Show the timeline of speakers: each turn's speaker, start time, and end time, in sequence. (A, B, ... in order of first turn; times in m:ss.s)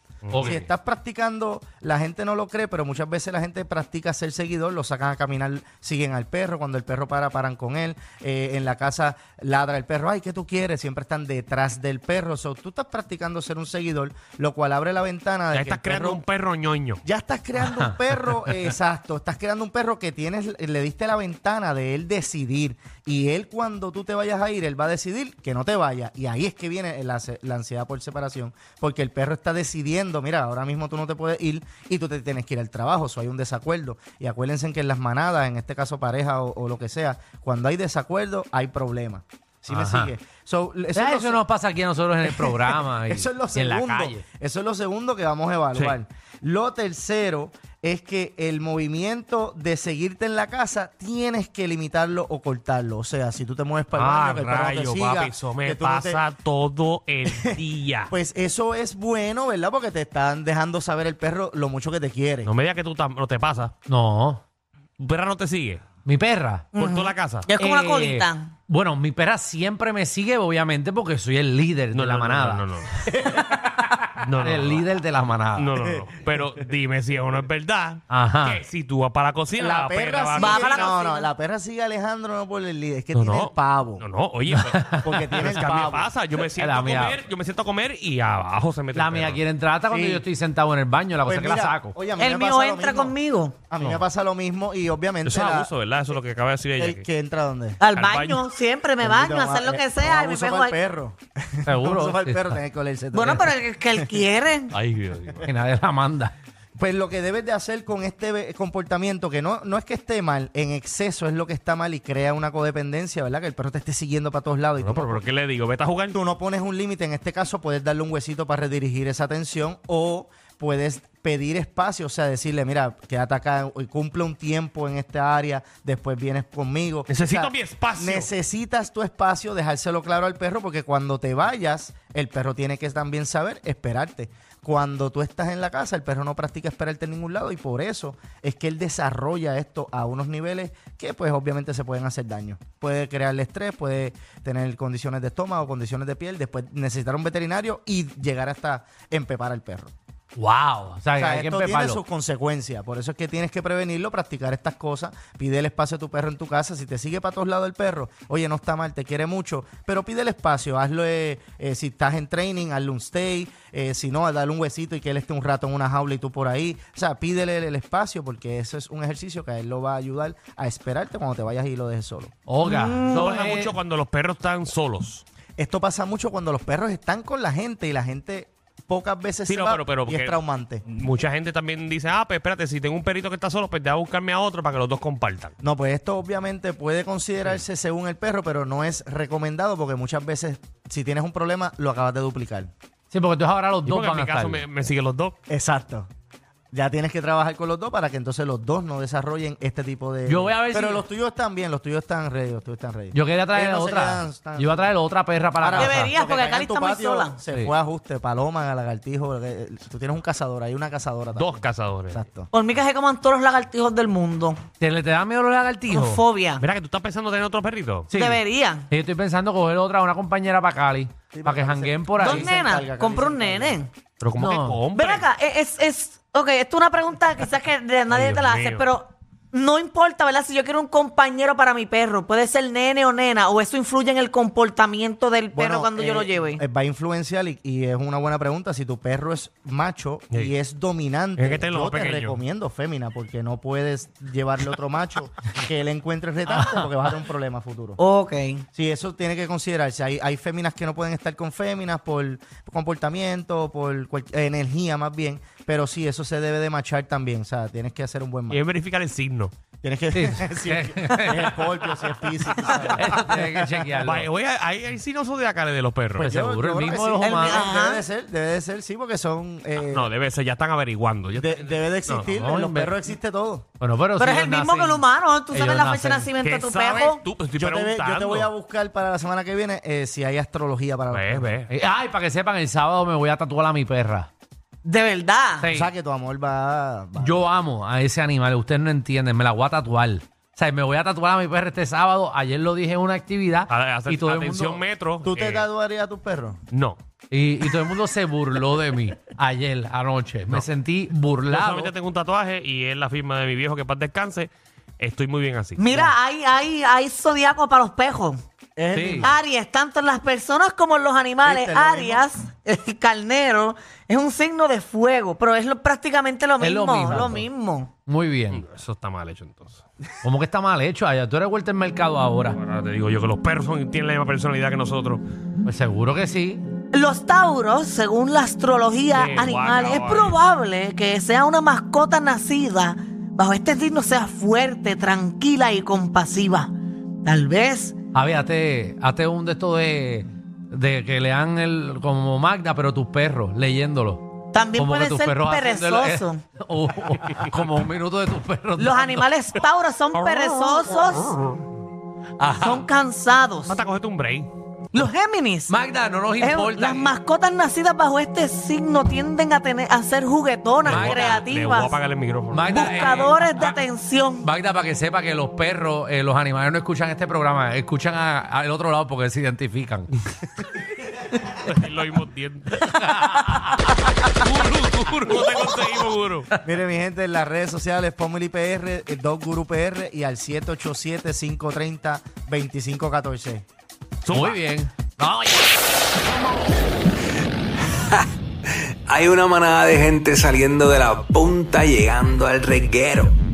0:00.2-0:00.7 A
0:00.3-0:00.7 B
0:00.3-0:16.2 C
0:15.5-0:17.0 A
0:17.0-0:41.4 C
0:17.6-0:18.7 B
0:39.7-0:40.1 B
0:40.9-0:44.2 B
0:42.2-0:56.2 C
0:54.0-0:58.1 A
0:57.3-0:57.5 C
0:58.1-1:02.5 C
1:02.4-1:03.7 A
1:03.9-1:04.4 B
1:05.0-1:05.8 A
1:06.0-1:06.7 B
1:06.7-1:08.5 D
1:06.8-1:07.5 A
1:07.6-1:15.7 B
1:11.9-1:13.0 A
1:14.2-1:14.9 A
1:15.6-1:21.0 A
1:18.1-1:18.6 B
1:19.6-1:24.0 C
1:20.4-1:21.3 D
1:23.1-1:29.4 A
1:24.5-1:25.5 B
1:25.0-1:26.1 C
1:26.6-1:27.2 B
1:28.9-1:31.9 B
1:29.9-1:30.3 C
1:31.2-1:33.1 C
1:32.2-1:33.6 D
1:33.7-1:35.7 C
1:33.8-1:34.0 A
1:35.2-1:37.1 A
1:36.8-1:37.8 C
1:37.8-1:40.8 D
1:37.9-1:38.5 A
1:39.0-1:44.2 C
1:41.6-1:42.6 B
1:43.1-1:44.7 D
1:44.7-1:45.5 A
1:45.4-1:46.3 B
1:46.8-1:55.2 C
1:54.8-1:56.2 A
1:56.1-2:29.9 C
2:07.1-2:08.3 A
2:30.4-2:32.0 B
2:31.2-2:52.3 C
2:52.5-2:53.7 B
2:52.6-2:53.5 D
2:53.1-2:55.2 A
2:55.6-3:00.8 C
2:59.5-3:05.5 A
3:05.6-3:12.7 C
3:13.1-3:14.6 B
3:13.8-3:15.3 A
3:15.5-3:16.1 C
3:16.7-3:24.8 C
3:20.3-3:21.0 B
3:23.1-3:26.2 B
3:25.6-3:31.6 C
3:25.8-3:27.4 D
3:31.4-3:32.2 A
3:32.1-3:32.5 C
3:32.5-3:34.6 D
3:34.8-3:36.2 B
3:35.9-3:36.6 D
3:36.6-3:38.1 A
3:38.1-3:42.6 B
3:38.1-3:38.9 D
3:41.3-3:43.8 C
3:42.2-3:43.9 D
3:44.2-3:45.3 A
3:44.4-3:44.8 B
3:44.9-3:56.6 D
3:48.1-3:48.9 A
3:55.5-4:08.0 C
4:01.4-4:02.4 A
4:06.5-4:06.9 B
4:08.0-4:08.6 D
4:08.7-4:18.6 C
4:18.5-4:19.5 A
4:19.8-4:24.0 C
4:20.1-4:21.9 B
4:22.6-4:24.3 B
4:24.0-4:26.3 A
4:26.2-4:30.1 C
4:26.2-4:27.7 B
4:27.2-4:28.0 D
4:29.8-4:32.2 A
4:31.3-4:33.7 C
4:32.3-4:33.0 B
4:33.8-4:36.3 B
4:34.2-4:37.2 D
4:36.4-4:38.5 A
4:37.5-4:41.5 C
4:41.1-4:41.7 A
4:41.7-4:44.3 B
4:44.8-4:45.7 D
4:45.6-4:45.9 B
4:45.7-4:47.4 C
4:47.2-4:54.8 B
4:53.7-4:55.7 A
4:55.2-4:56.6 C
4:56.7-4:57.0 A
4:57.3-5:01.9 B
5:01.5-5:05.8 A
5:05.8-5:08.4 D
5:08.8-5:09.3 C
5:08.9-5:09.3 B
5:09.2-5:17.9 D
5:11.4-5:12.2 C
5:16.6-5:17.4 B
5:18.1-5:18.6 B
5:18.5-5:19.8 A
5:20.2-5:22.6 B
5:22.5-5:25.2 A
5:25.6-5:26.6 B
5:26.9-5:36.7 D
5:29.1-5:30.4 A
5:37.2-5:38.0 D
5:38.1-5:49.3 B
5:44.5-5:46.4 D
5:48.8-5:51.4 D
5:52.4-5:52.8 B
5:52.6-5:53.8 D
5:53.7-5:54.5 A
5:54.9-5:55.7 D
5:55.7-5:57.1 B
5:56.4-6:02.0 D
6:00.8-6:02.8 A
6:00.8-6:01.5 B
6:02.5-6:03.8 B
6:02.7-6:04.5 D
6:04.4-6:10.1 B
6:11.6-6:12.9 A
6:12.8-6:14.3 B
6:14.4-6:16.5 A
6:16.6-6:23.6 C
6:24.2-6:24.6 A
6:24.3-6:25.5 B
6:28.8-6:33.3 E